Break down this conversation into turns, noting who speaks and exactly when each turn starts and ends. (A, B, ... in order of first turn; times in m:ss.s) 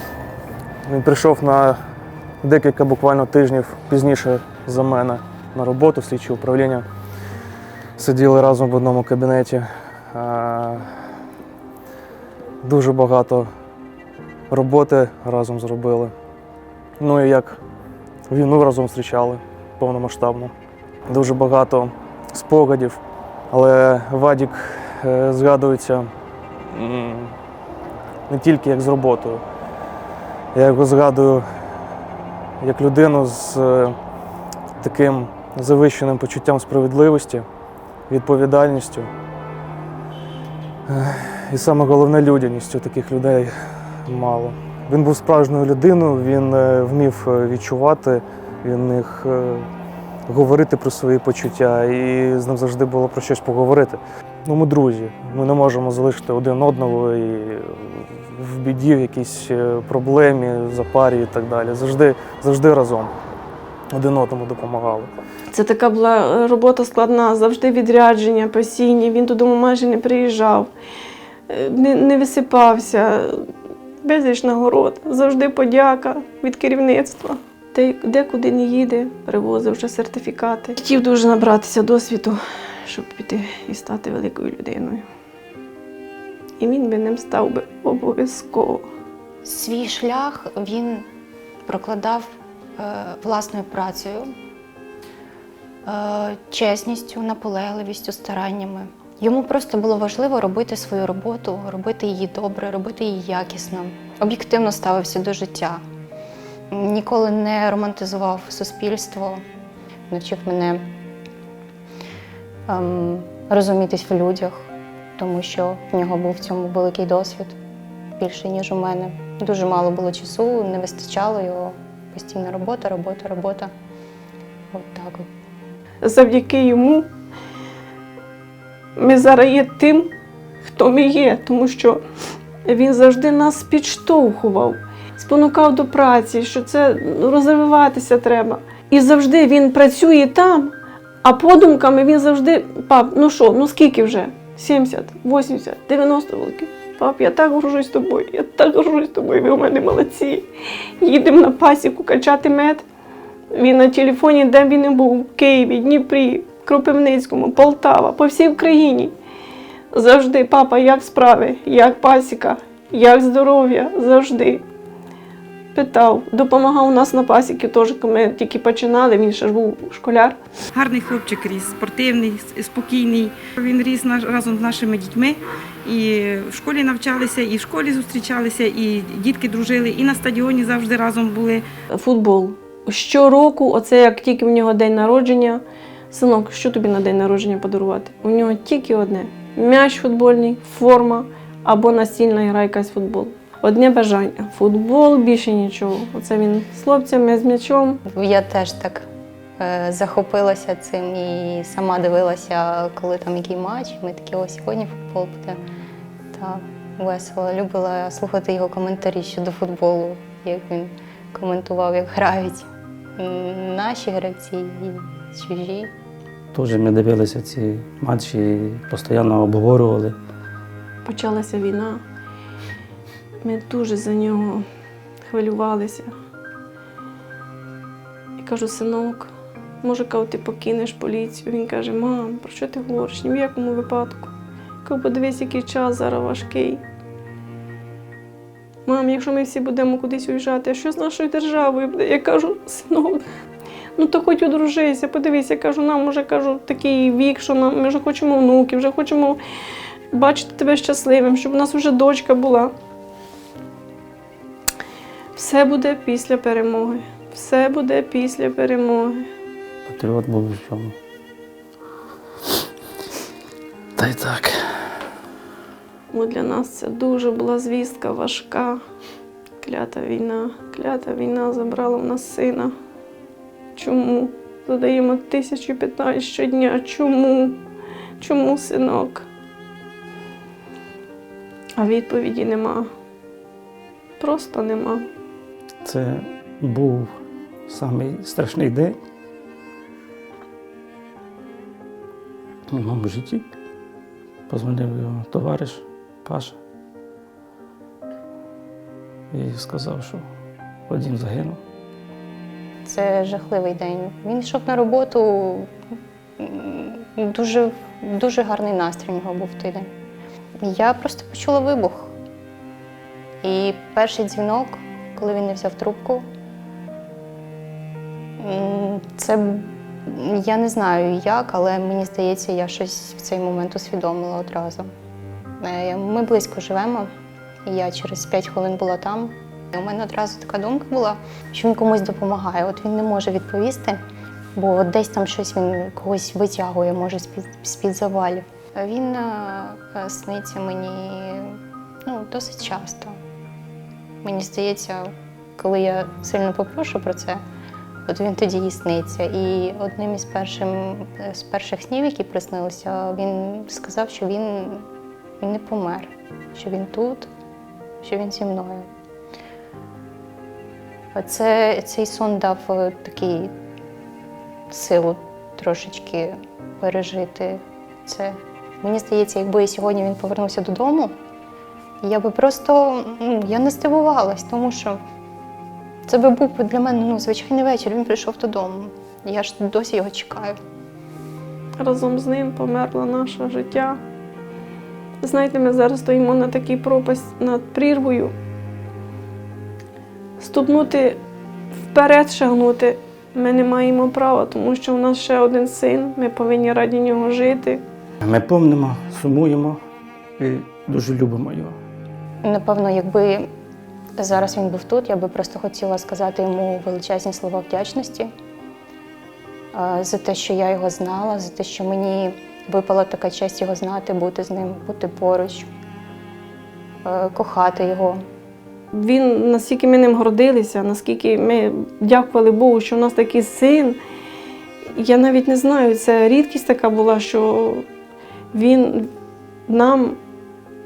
0:00.8-0:01.8 A
0:02.4-0:06.8 A
0:08.0-0:10.8 A
0:12.6-0:13.5 A
0:14.5-0:16.1 A
0:17.0-0:17.6 A
0:18.3-0:20.5 A
0:21.1-0:23.0 A
0:23.5-0:26.1 A
0:26.7-0:27.3 A
0:28.3-0:29.4 A
0:30.5-0:31.4 A
0:32.6-0:33.9 A
0:34.8-0:37.4 A
0:38.1-0:39.1 A
0:40.9-0:43.5 A
0:44.1-0:49.7 A
0:50.3-1:03.1 A
1:03.9-1:05.1 A
1:05.5-1:10.7 B
1:11.5-1:13.4 B
1:14.0-1:25.0 B
1:26.6-1:28.9 B
1:29.4-1:31.0 C
1:31.6-1:34.3 C
1:35.8-1:45.8 C
1:46.7-1:49.4 C
1:50.1-1:50.8 C
1:52.7-1:57.5 C
1:58.2-2:03.7 C
2:04.7-2:05.2 C
2:06.0-2:07.1 B
2:09.0-2:10.1 B
2:10.6-2:12.0 B
2:12.6-2:30.4 B
2:31.0-2:32.8 B
2:33.5-2:39.1 B
2:39.9-2:44.6 B
2:45.7-2:50.4 B
2:50.7-3:01.6 D
3:01.9-3:18.0 B
3:18.1-3:19.1 C
3:19.6-3:25.6 C
3:26.3-3:32.6 C
3:33.2-3:35.9 C
3:36.5-3:40.2 E
3:41.0-3:42.0 B
3:43.4-3:44.6 B
3:45.2-3:46.1 B
3:48.4-3:54.3 B
3:54.8-3:56.8 B
3:58.8-4:03.2 B
4:04.0-4:09.4 B
4:10.1-4:12.7 B
4:15.3-4:19.2 B
4:19.8-4:20.9 E
4:24.0-4:24.9 E
4:26.1-4:28.8 B
4:29.6-4:32.7 B
4:33.8-4:37.6 B
4:38.2-4:39.2 B
4:41.8-4:42.9 B
4:44.2-4:45.0 B
4:45.8-4:47.1 E
4:47.7-4:49.0 E
4:52.7-4:53.5 E
4:54.5-4:56.6 E
4:59.3-5:00.2 E
5:00.9-5:01.6 E
5:02.8-5:05.7 C
5:06.4-5:09.9 C
5:10.6-5:12.1 C
5:13.4-5:16.3 C
5:18.4-5:24.8 C
5:25.6-5:27.1 C
5:27.6-5:34.0 C
5:34.6-5:43.1 C
5:44.2-5:47.4 C
5:48.1-5:54.8 C
5:55.4-5:57.3 C
5:58.0-5:58.9 C
6:01.1-6:03.5 C
6:04.7-6:11.1 C
6:12.0-6:15.0 C
6:16.1-6:20.6 C
6:21.8-6:24.0 B
6:25.2-6:28.3 B
6:30.4-6:31.2 B
6:31.8-6:37.8 B
6:38.2-6:39.8 E
6:40.4-6:41.8 E
6:42.4-6:43.5 C
6:44.2-6:48.3 C
6:49.7-6:55.7 C
6:57.0-6:58.2 C
6:58.9-7:04.0 B
7:04.9-7:07.8 B
7:08.5-7:09.1 B
7:09.7-7:10.2 B